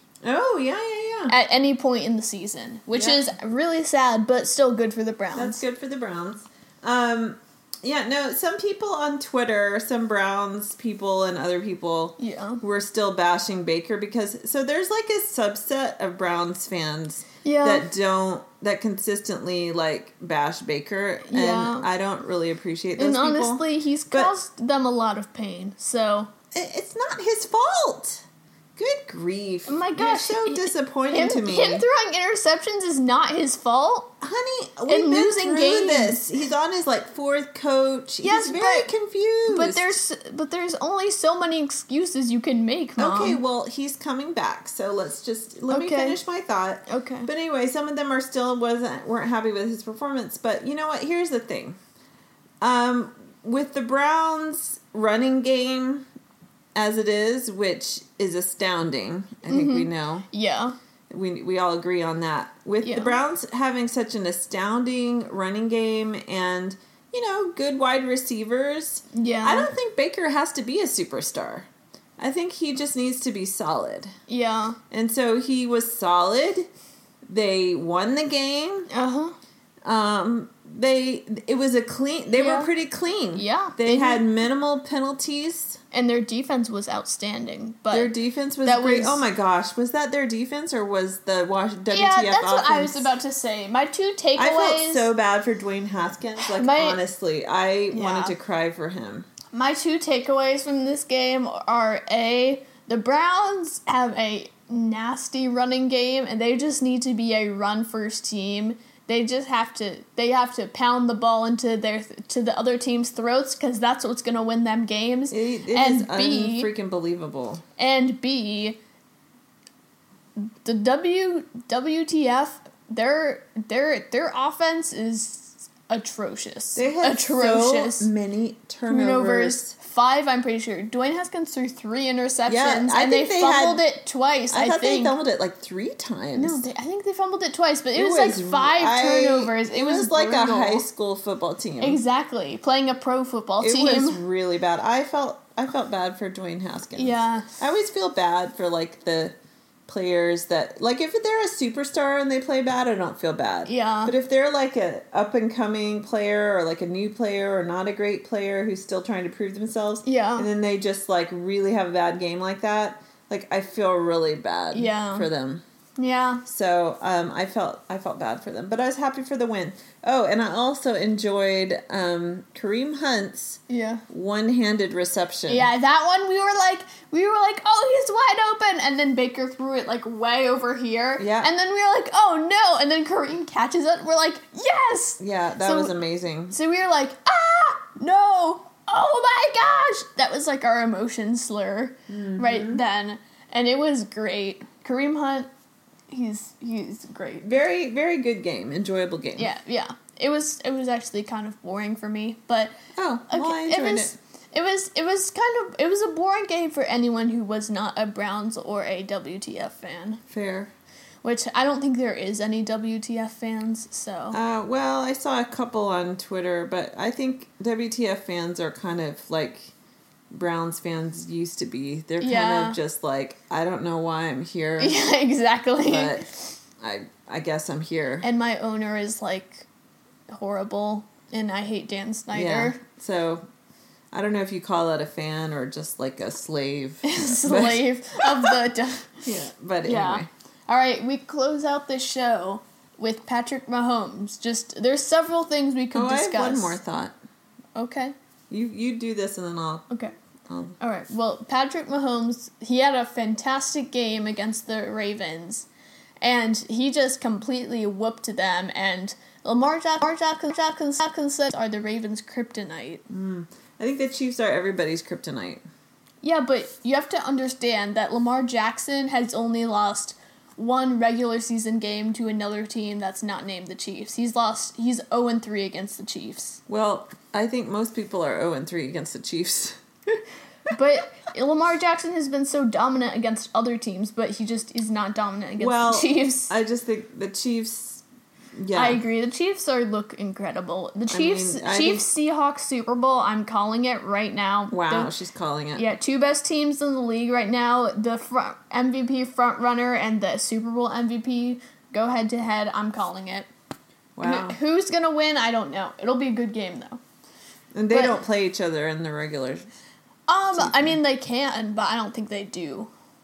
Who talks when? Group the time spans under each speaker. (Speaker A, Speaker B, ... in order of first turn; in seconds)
Speaker A: 0.2-1.4, 2.9-3.3, 5.3-24.3, 26.5-28.2, 28.8-31.8, 34.2-40.0, 43.0-51.8, 52.6-56.0, 56.7-60.2, 61.1-71.7, 72.2-74.1, 74.9-76.7, 77.3-78.9, 79.8-85.8, 87.9-93.1, 94.3-99.3, 115.3-117.6, 126.7-129.7, 132.5-133.8, 134.5-136.7, 137.9-142.0, 143.6-149.3, 149.9-165.6, 166.4-175.7, 181.2-181.5, 185.2-186.6, 192.1-192.8, 197.4-199.5, 202.9-204.1, 210.3-210.7, 214.3-219.7, 220.3-225.0, 225.8-226.3, 226.8-228.2, 232.3-233.4, 234.1-238.6, 239.2-240.3, 245.9-247.1, 248.5-249.9, 250.5-250.8, 263.1-265.6, 276.7-280.2, 285.6-288.0, 288.6-289.0, 291.1-292.1, 294.7-295.9, 304.1-304.6, 307.7-309.6, 310.5-311.0
Speaker B: 1.3-5.6, 12.2-12.6, 17.4-17.9, 21.2-21.9, 23.0-26.3, 29.7-34.1, 34.9-36.2, 38.2-38.9, 39.5-43.4, 45.7-46.2, 46.9-47.3, 59.5-60.8, 62.8-63.1, 69.1-69.7, 74.3-74.8, 78.9-79.3, 82.3-82.7, 83.3-84.2, 85.9-88.1, 88.6-89.2, 91.9-95.1, 96.4-97.0, 97.9-98.3, 99.5-116.7, 117.8-118.8, 120.4-128.1, 128.9-135.2, 136.4-140.8, 141.8-144.2, 146.9-147.5, 153.7-154.1, 160.0-160.5, 164.7-165.3, 166.0-166.4, 173.7-174.0, 175.5-185.9, 186.5-195.5, 196.1-197.5, 199.3-202.8, 203.3-210.2, 211.2-214.4, 222.2-222.8, 224.8-226.5, 228.2-229.7, 230.3-232.8, 237.0-239.2, 239.8-246.8, 247.7-248.1, 250.8-255.7, 256.2-263.0, 266.2-276.6, 280.7-286.5, 288.7-295.1, 295.7-303.5, 304.2-307.0, 307.9-308.2, 310.3-312.9